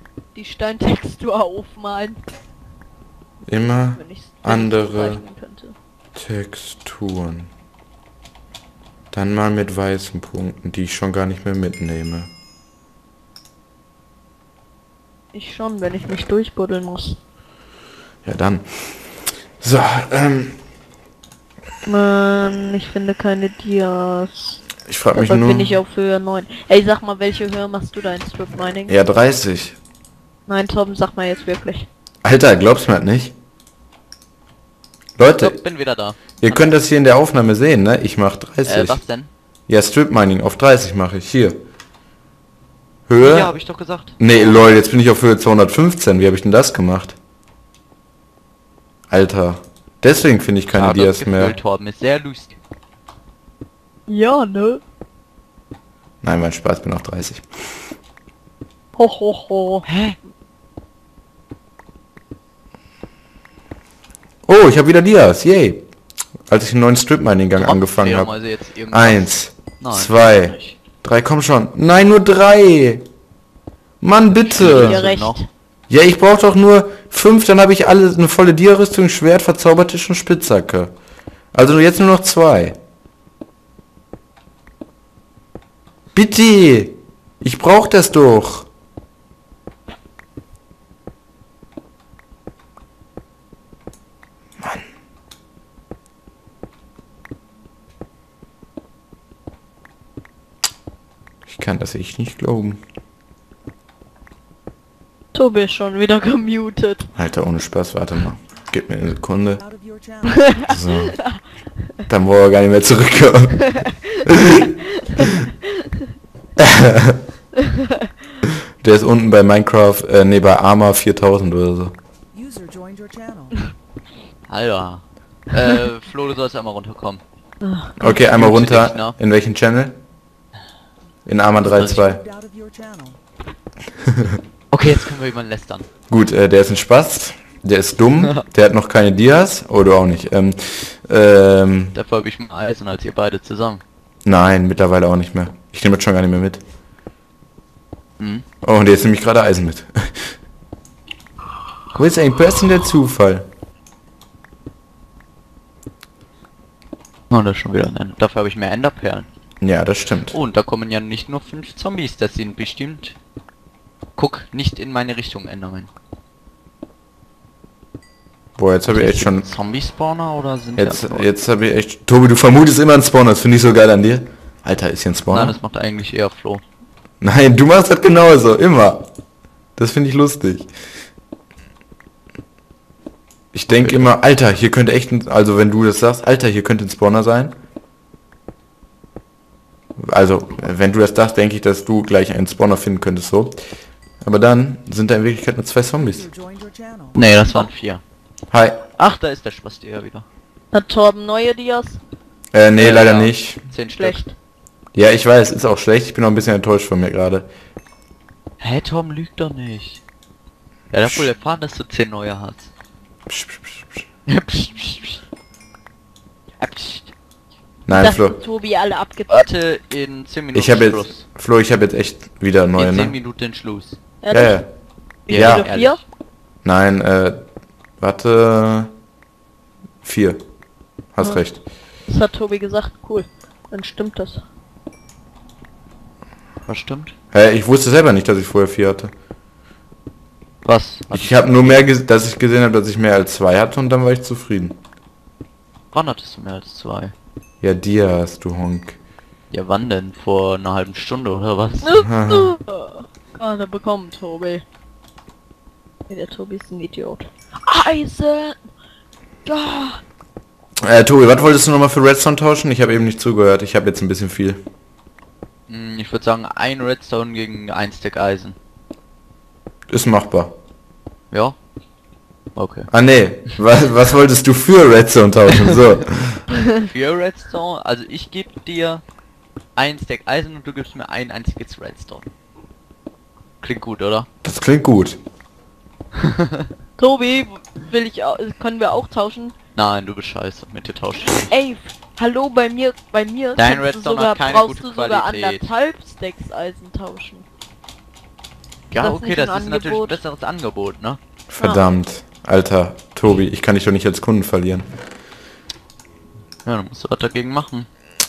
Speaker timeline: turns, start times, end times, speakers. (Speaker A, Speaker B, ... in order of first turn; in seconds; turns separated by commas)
Speaker A: 0.3-2.2, Speaker B: 3.5-5.2, Speaker A: 4.0-5.8, Speaker B: 6.2-7.5, Speaker B: 9.1-12.3, Speaker A: 15.3-17.2, Speaker B: 18.2-19.0, Speaker B: 19.6-20.6, Speaker A: 21.9-24.6, Speaker B: 24.9-25.8, Speaker A: 25.1-28.9, Speaker B: 28.9-29.8, Speaker A: 30.5-31.9, Speaker B: 32.2-33.3, Speaker B: 35.2-35.6, Speaker C: 35.2-36.7, Speaker B: 36.4-39.0, Speaker C: 38.7-39.3, Speaker B: 39.7-41.6, Speaker B: 43.1-43.5, Speaker C: 43.2-44.8, Speaker B: 44.2-47.2, Speaker B: 49.1-51.6, Speaker C: 50.7-52.6, Speaker A: 54.1-54.8, Speaker B: 56.2-57.4, Speaker A: 59.0-59.9, Speaker C: 59.9-60.2, Speaker B: 64.5-65.8, Speaker B: 66.5-68.3, Speaker C: 67.6-70.8, Speaker B: 68.9-73.0, Speaker B: 74.0-75.0, Speaker C: 74.3-75.4, Speaker A: 74.7-75.5, Speaker B: 75.9-80.9, Speaker B: 81.5-82.8, Speaker B: 86.2-88.7, Speaker B: 101.5-102.8, Speaker A: 105.3-107.1, Speaker B: 107.2-109.6, Speaker A: 109.6-111.4, Speaker B: 110.7-111.2, Speaker B: 112.1-113.7, Speaker A: 113.8-114.2, Speaker B: 114.3-115.2, Speaker B: 116.6-117.2, Speaker B: 118.8-121.9, Speaker A: 122.3-123.5, Speaker C: 124.5-127.2, Speaker A: 127.6-128.2, Speaker B: 128.0-130.0, Speaker C: 128.3-129.1, Speaker B: 131.3-132.2, Speaker C: 131.7-132.0, Speaker A: 132.3-133.1, Speaker C: 134.7-135.9, Speaker B: 136.1-142.0, Speaker C: 141.9-143.8, Speaker B: 144.2-146.6, Speaker C: 148.2-148.4, Speaker B: 148.6-150.3, Speaker B: 151.9-153.5, Speaker C: 157.3-159.3, Speaker B: 159.6-160.4, Speaker C: 160.3-163.2, Speaker C: 164.2-165.9, Speaker B: 168.6-169.5, Speaker C: 168.9-171.3, Speaker B: 170.8-175.6, Speaker C: 175.3-176.6, Speaker B: 177.2-179.1, Speaker B: 179.8-180.7, Speaker B: 183.5-187.5, Speaker C: 183.8-184.1, Speaker B: 190.0-193.6, Speaker B: 194.2-196.3, Speaker A: 196.4-197.7, Speaker C: 197.2-198.0, Speaker B: 198.5-198.8, Speaker C: 199.0-200.3, Speaker A: 200.7-202.0, Speaker B: 202.5-203.6, Speaker C: 202.8-204.2, Speaker A: 204.0-204.3, Speaker B: 204.9-207.5, Speaker C: 208.6-210.0, Speaker C: 210.9-212.7, Speaker B: 213.3-214.0, Speaker C: 214.3-215.2, Speaker C: 216.6-217.1, Speaker B: 217.9-218.4, Speaker A: 217.9-219.5, Speaker C: 219.3-221.3, Speaker B: 220.5-223.2, Speaker C: 222.8-224.0, Speaker A: 224.2-224.6, Speaker B: 224.3-224.7, Speaker C: 225.3-226.0, Speaker B: 225.3-225.7, Speaker A: 225.3-226.0, Speaker B: 226.6-227.4, Speaker B: 228.0-228.9, Speaker B: 230.0-230.4, Speaker B: 231.1-231.6, Speaker A: 232.1-234.4, Speaker C: 236.7-237.1, Speaker B: 237.3-239.1, Speaker C: 240.6-241.9, Speaker B: 241.1-244.8, Speaker C: 245.9-247.1, Speaker B: 247.6-249.0, Speaker C: 249.5-252.0, Speaker A: 251.8-254.6, Speaker B: 252.0-252.6, Speaker A: 256.1-258.6, Speaker A: 259.4-260.0, Speaker B: 260.8-264.6, Speaker C: 265.7-268.6, Speaker B: 269.9-270.5, Speaker C: 271.3-271.6, Speaker C: 272.6-272.9, Speaker B: 272.9-276.4, Speaker C: 276.7-279.0, Speaker C: 279.8-282.3, Speaker C: 283.6-284.3, Speaker B: 284.4-285.2, Speaker A: 287.0-289.6, Speaker C: 289.8-291.5, Speaker A: 291.5-297.5, Speaker C: 293.6-295.7, Speaker C: 298.9-301.2, Speaker A: 299.0-300.2, Speaker B: 301.5-304.9, Speaker A: 301.6-301.9, Speaker C: 306.6-307.9